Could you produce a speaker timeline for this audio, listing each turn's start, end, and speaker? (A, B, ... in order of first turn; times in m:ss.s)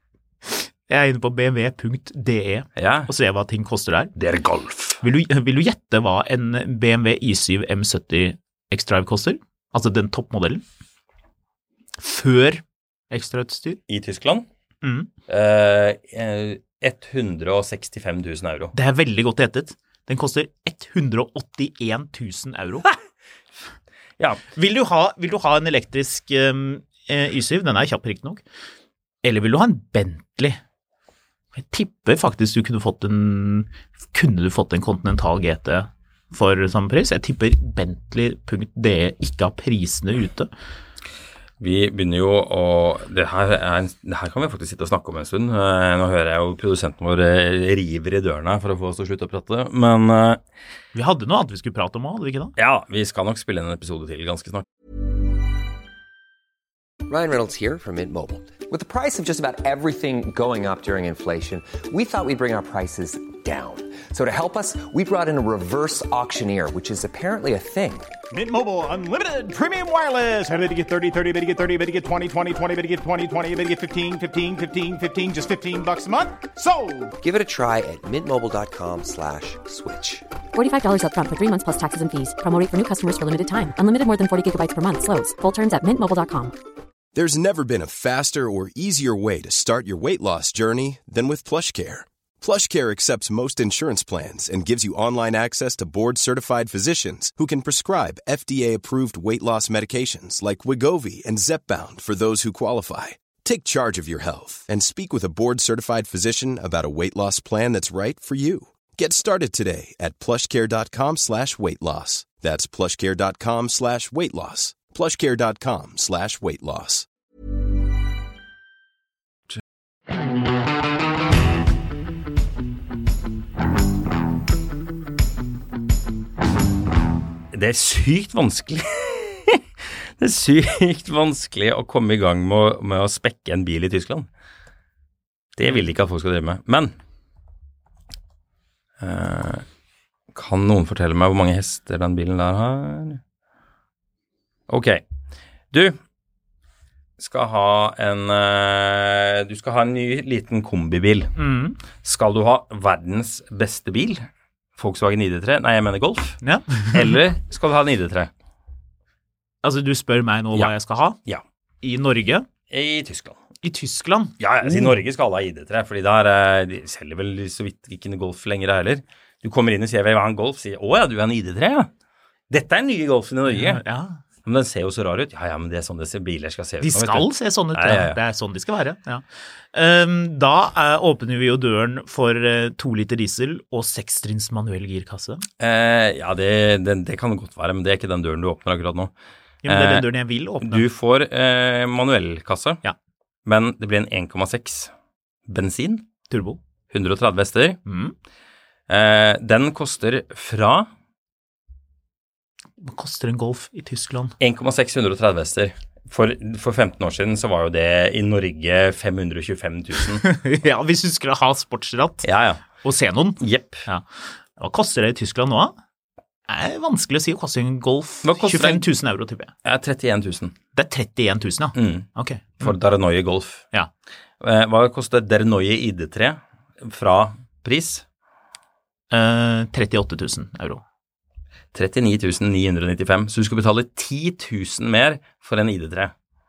0:00.5-0:04.1 A
0:02.8-0:03.1 B
0:04.2-0:05.0 B
0:05.0-0:10.6 A
0:12.0-0:13.8 A
0:13.9-0:14.4 B
0:14.8-0:15.1 A
0:15.3-0:18.7 B
0:18.7-0:22.9 A
0:24.5-0:28.4 A
0:29.2-0:30.6 A
0:31.5-0:40.5 A
0:41.6-0:50.4 B
0:50.9-0:52.5 A
0:52.6-0:54.6 B
0:57.1-1:08.1 C
1:08.3-1:17.1 D
1:17.2-1:20.3 C
1:20.5-1:26.5 E
1:27.1-1:57.1 F
2:07.5-2:09.6 B
2:10.2-2:14.3 B
2:15.6-2:16.9 B
2:19.0-2:19.6 B
2:20.3-2:23.2 B
2:24.7-2:25.0 B
2:25.7-2:26.0 B
2:27.2-2:31.4 B
2:31.4-2:31.8 A
2:32.0-2:34.2 B
2:34.8-2:36.4 B
2:36.4-2:37.1 A
2:36.9-2:38.3 B
2:39.6-2:41.2 A
2:41.8-2:42.5 A
2:42.7-2:43.4 B
2:43.6-2:45.0 A
2:44.4-2:51.9 B
2:52.5-2:53.8 B
2:53.5-2:54.2 A
2:54.4-2:58.2 B
2:56.8-3:05.4 A
3:05.6-3:09.1 B
3:09.6-3:10.8 A
3:09.6-3:10.1 B
3:10.6-3:12.8 B
3:13.4-3:14.9 B
3:15.5-3:16.0 B
3:16.3-3:16.6 A
3:16.9-3:17.8 B
3:17.8-3:18.1 A
3:18.9-3:20.9 B
3:22.8-3:24.3 A
3:24.4-3:30.2 B
3:30.2-3:32.2 A
3:32.2-3:32.6 B
3:32.8-3:35.8 A
3:33.4-3:33.8 B
3:36.5-3:39.5 A
3:38.2-3:38.9 B
3:39.6-3:40.5 B
3:40.7-3:42.7 A
3:41.7-3:43.6 B
3:44.4-3:48.0 B
3:49.1-3:50.8 A
3:51.7-3:56.1 B